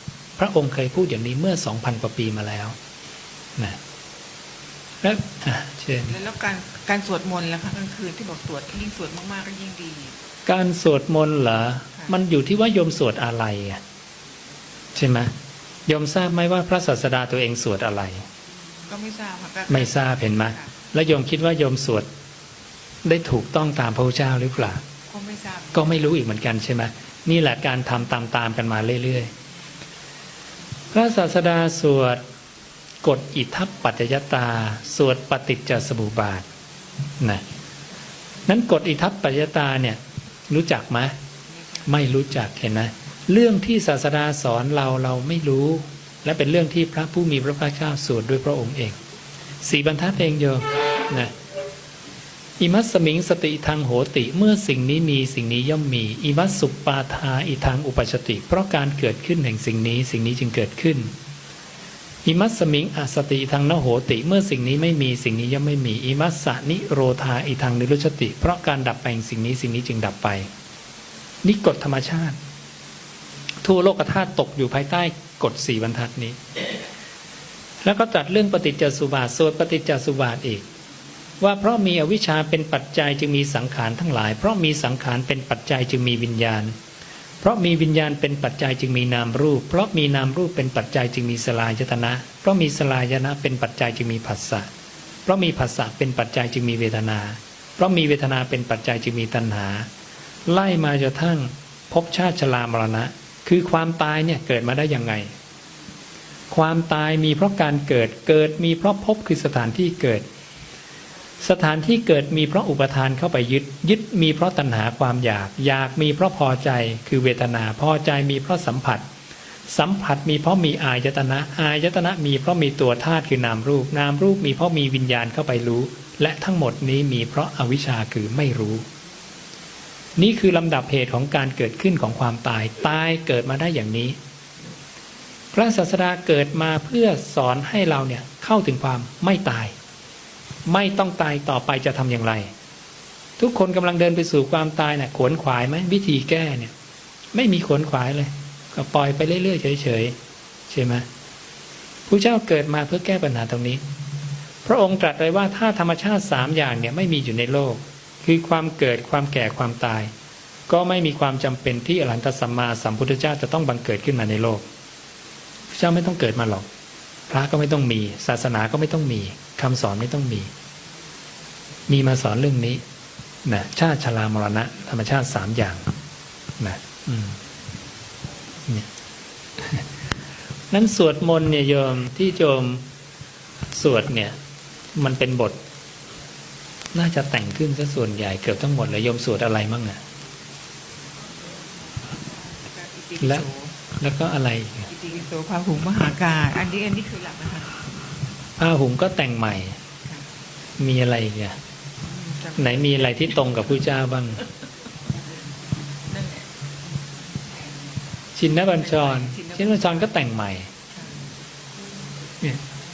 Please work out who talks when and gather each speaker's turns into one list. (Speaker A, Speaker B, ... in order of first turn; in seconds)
Speaker A: 0.4-2.8, 5.0-6.1, 10.4-13.8, 14.9-15.3, 15.9-18.2, 19.7-22.1, 23.0-24.8, 25.7-29.3, 30.9-32.2, 33.0-36.5, 38.5-41.1, 41.8-49.0, 49.6-51.3, 52.6-61.1, 62.2-70.5, 71.4-72.4, 73.6-76.4, 77.8-80.6, 81.4-86.7, 87.4-94.7, 95.2-99.9, 100.5-105.3, 106.5-110.2, 111.4-119.0, 119.7-128.8, 130.2-134.2, 135.5-139.7, 140.7-142.5, 143.4-146.7, 147.3-150.2, 150.7-151.1, 152.1-153.8, 154.6-160.1, 160.7-164.6, 165.7-166.7, 167.3-170.5, 171.9-172.8, 173.4-175.9, 176.6-177.4, 179.6-179.8, 180.7-182.8, 183.7-184.3, 184.9-185.6, 186.9-190.0, 194.0-194.9, 198.6-199.8, 200.8-201.6, 202.6-204.4, 208.3-210.7
Speaker B: 6.0-10.2, 18.9-20.7, 25.1-26.0, 41.5-41.9, 192.3-193.8, 194.9-197.7, 202.0-203.6, 206.1-206.4, 208.7-210.2, 210.9-211.2